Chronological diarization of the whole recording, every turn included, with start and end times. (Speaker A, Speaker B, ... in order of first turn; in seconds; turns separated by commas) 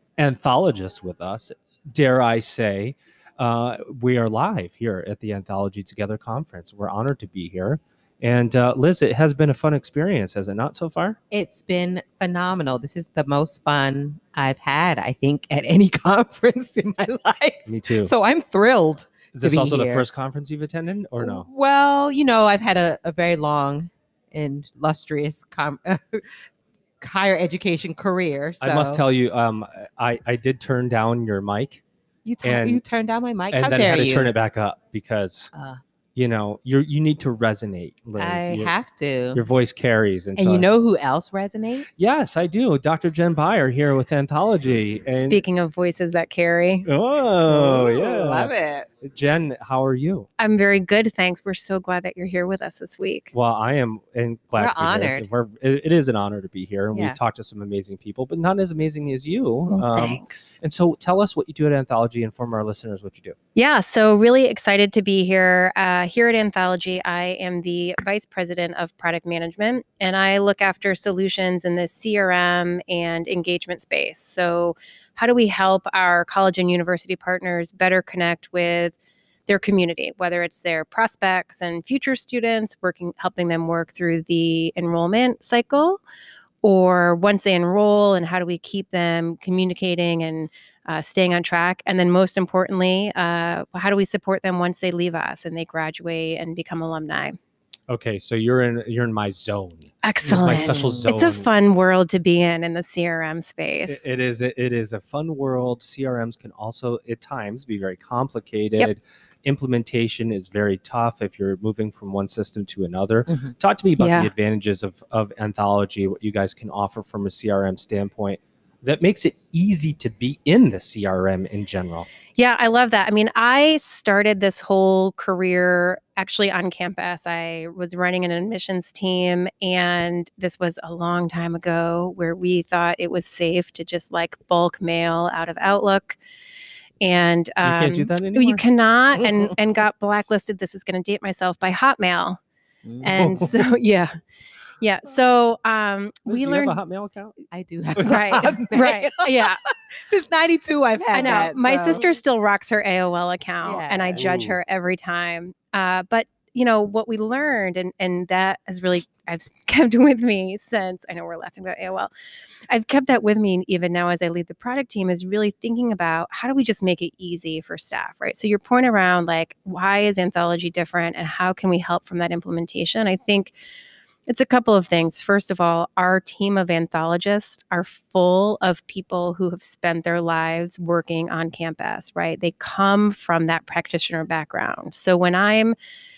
Speaker A: 0.2-11.2, Speaker B: 11.3-20.0, Speaker A: 17.7-18.1, Speaker A: 19.3-21.5, Speaker B: 21.2-26.4, Speaker B: 27.0-29.0, Speaker A: 28.6-31.8, Speaker B: 32.2-34.3, Speaker A: 32.4-32.8, Speaker A: 33.5-35.5, Speaker B: 35.5-35.8, Speaker A: 36.1-38.7, Speaker B: 38.2-39.4, Speaker A: 39.3-40.7, Speaker B: 40.4-42.1, Speaker A: 42.0-45.4, Speaker C: 45.1-46.9, Speaker A: 46.9-50.3, Speaker B: 47.5-48.9, Speaker C: 50.4-53.3, Speaker A: 53.3-63.4, Speaker B: 54.6-55.2, Speaker C: 59.7-60.5, Speaker C: 63.5-79.0, Speaker C: 79.5-86.0, Speaker C: 86.6-97.4, Speaker A: 97.9-101.5, Speaker C: 100.0-104.0, Speaker B: 100.6-101.1, Speaker A: 103.9-122.1, Speaker C: 114.0-114.3, Speaker C: 122.4-136.2, Speaker C: 137.0-142.4, Speaker A: 137.6-138.6, Speaker B: 142.8-143.3, Speaker C: 143.0-144.2, Speaker A: 143.2-143.7, Speaker C: 144.8-146.8, Speaker A: 146.3-147.3, Speaker B: 147.5-152.0, Speaker A: 147.9-148.4, Speaker C: 148.1-149.6, Speaker C: 151.1-162.1, Speaker B: 153.6-154.2, Speaker A: 154.2-154.6, Speaker C: 162.7-173.5, Speaker C: 174.3-185.8